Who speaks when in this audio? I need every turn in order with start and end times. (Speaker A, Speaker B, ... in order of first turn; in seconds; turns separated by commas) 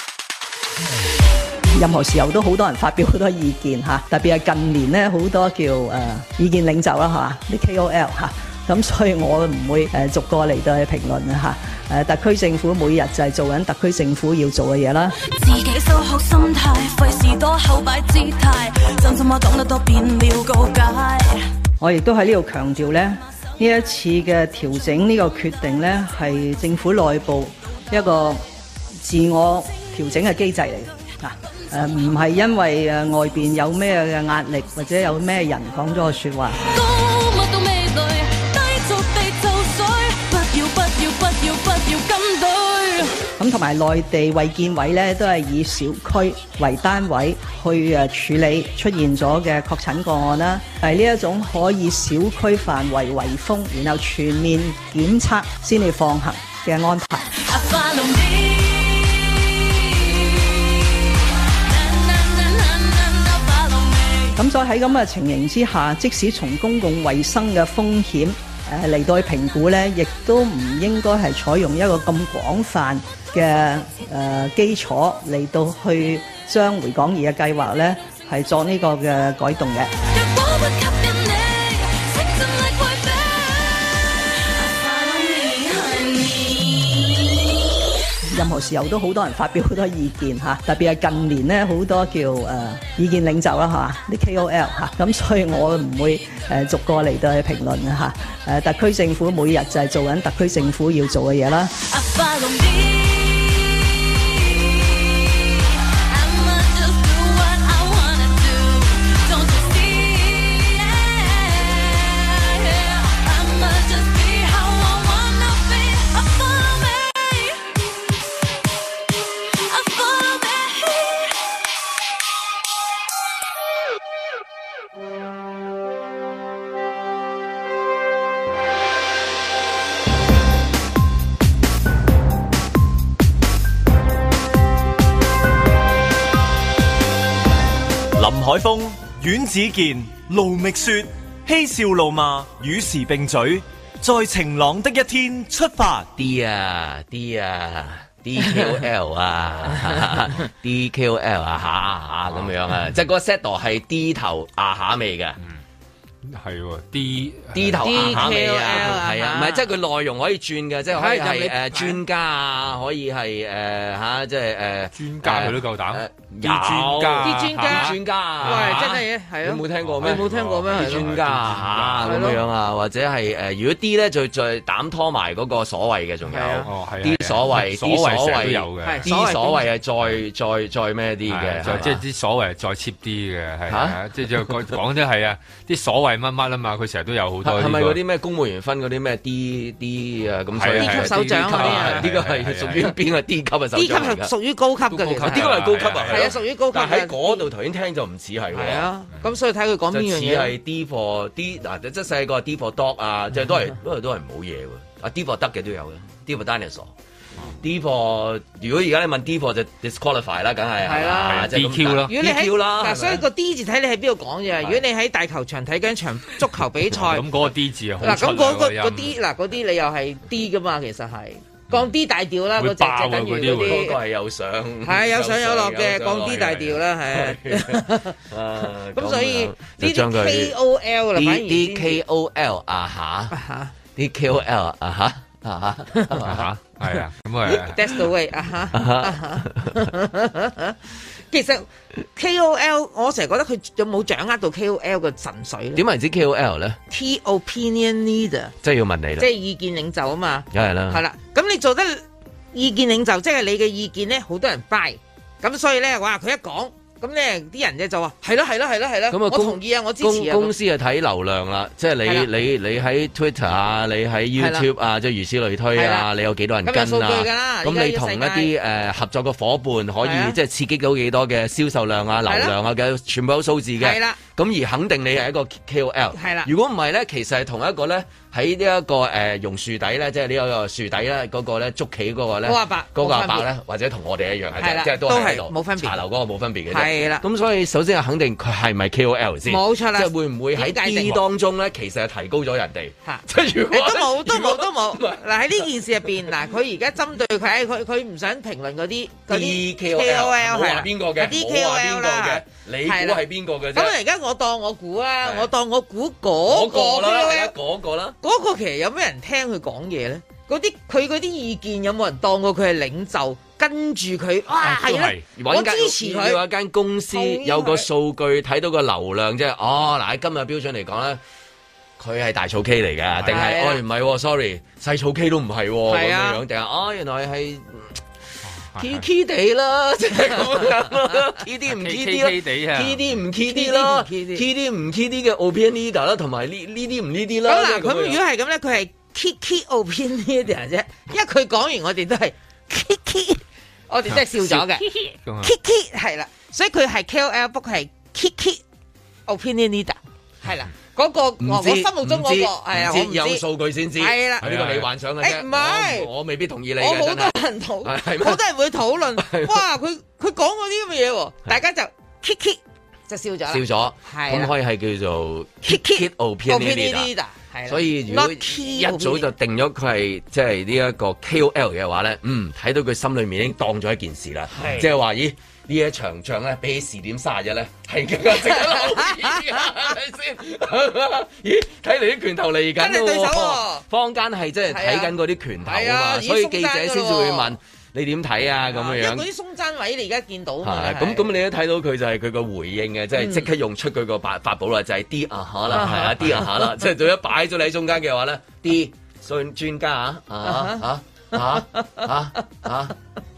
Speaker A: 1.7-15.2, Speaker B: 15.3-21.5, Speaker A: 21.8-28.4, Speaker A: 29.0-36.6, Speaker B: 36.6-43.2, Speaker A: 43.4-57.3, Speaker B: 57.3-64.4, Speaker A: 64.4-79.9, Speaker B: 80.1-87.5, Speaker A: 88.3-101.7, Speaker B: 101.8-117.7, Speaker B: 119.5-121.4, Speaker C: 138.2-146.1, Speaker D: 146.2-155.4, Speaker E: 156.3-159.0, Speaker D: 157.5-182.0, Speaker F: 157.8-159.6, Speaker F: 160.9-162.0, Speaker E: 164.9-169.0, Speaker F: 167.2-171.1, Speaker E: 169.8-172.4, Speaker F: 172.0-172.4, Speaker F: 176.2-176.7, Speaker E: 176.7-179.0, Speaker F: 178.8-179.7, Speaker E: 181.3-188.0, Speaker D: 183.7-184.5, Speaker D: 187.4-194.3, Speaker E: 190.6-193.0, Speaker F: 190.8-192.1, Speaker F: 193.7-197.5, Speaker E: 194.9-196.4, Speaker D: 195.3-198.9, Speaker F: 198.5-200.6, Speaker D: 199.9-206.9, Speaker D: 207.6-213.2, Speaker F: 210.8-211.5, Speaker E: 211.2-212.1, Speaker F: 212.1-217.2, Speaker E: 217.0-219.2, Speaker F: 218.0-224.0, Speaker E: 222.6-223.9, Speaker D: 223.6-230.6, Speaker F: 224.8-232.0, Speaker D: 231.2-233.3, Speaker F: 233.3-233.7, Speaker D: 233.9-236.9, Speaker E: 236.2-237.8, Speaker F: 237.7-240.8, Speaker D: 238.7-239.8, Speaker F: 241.3-245.8, Speaker D: 245.8-246.8, Speaker F: 246.9-248.5, Speaker D: 248.6-249.3, Speaker F: 249.2-260.5, Speaker D: 250.5-251.0, Speaker D: 259.1-295.7, Speaker F: 262.0-262.3, Speaker F: 264.4-264.7, Speaker F: 265.7-266.1, Speaker F: 266.6-268.5, Speaker F: 270.0-270.4, Speaker F: 272.3-272.6, Speaker F: 273.8-274.2, Speaker F: 276.1-276.5, Speaker F: 282.4-283.5, Speaker F: 284.6-286.0, Speaker F: 286.7-287.2, Speaker F: 289.5-291.2, Speaker F: 293.1-307.6, Speaker D: 299.3-304.0, Speaker D: 305.2-305.5, Speaker D: 306.4-308.2, Speaker F: 308.2-316.4, Speaker E: 314.9-315.2, Speaker D: 315.3-321.2, Speaker F: 317.1-317.9, Speaker D: 322.0-328.0, Speaker E: 323.2-323.4, Speaker F: 323.3-323.8, Speaker F: 325.9-326.4, Speaker E: 328.5-329.1, Speaker D: 328.8-338.2, Speaker F: 330.2-330.6, Speaker E: 331.7-333.2, Speaker F: 333.4-334.4, Speaker F: 337.5-348.6, Speaker E: 344.2-345.5, Speaker F: 349.3-353.4, Speaker D: 351.4-358.4, Speaker F: 354.0-354.5, Speaker E: 354.4-354.9, Speaker F: 355.2-356.1, Speaker F: 356.8-364.5, Speaker D: 359.2-359.6, Speaker D: 363.5-367.1, Speaker F: 365.7-369.3, Speaker D: 367.7-389.3, Speaker F: 374.6-374.8, Speaker F: 382.8-383.9, Speaker F: 384.7-387.5, Speaker F: 388.6-391.3, Speaker D: 390.6-402.9, Speaker F: 393.2-393.5, Speaker F: 395.7-396.8, Speaker F: 400.5-400.8, Speaker F: 401.4-402.1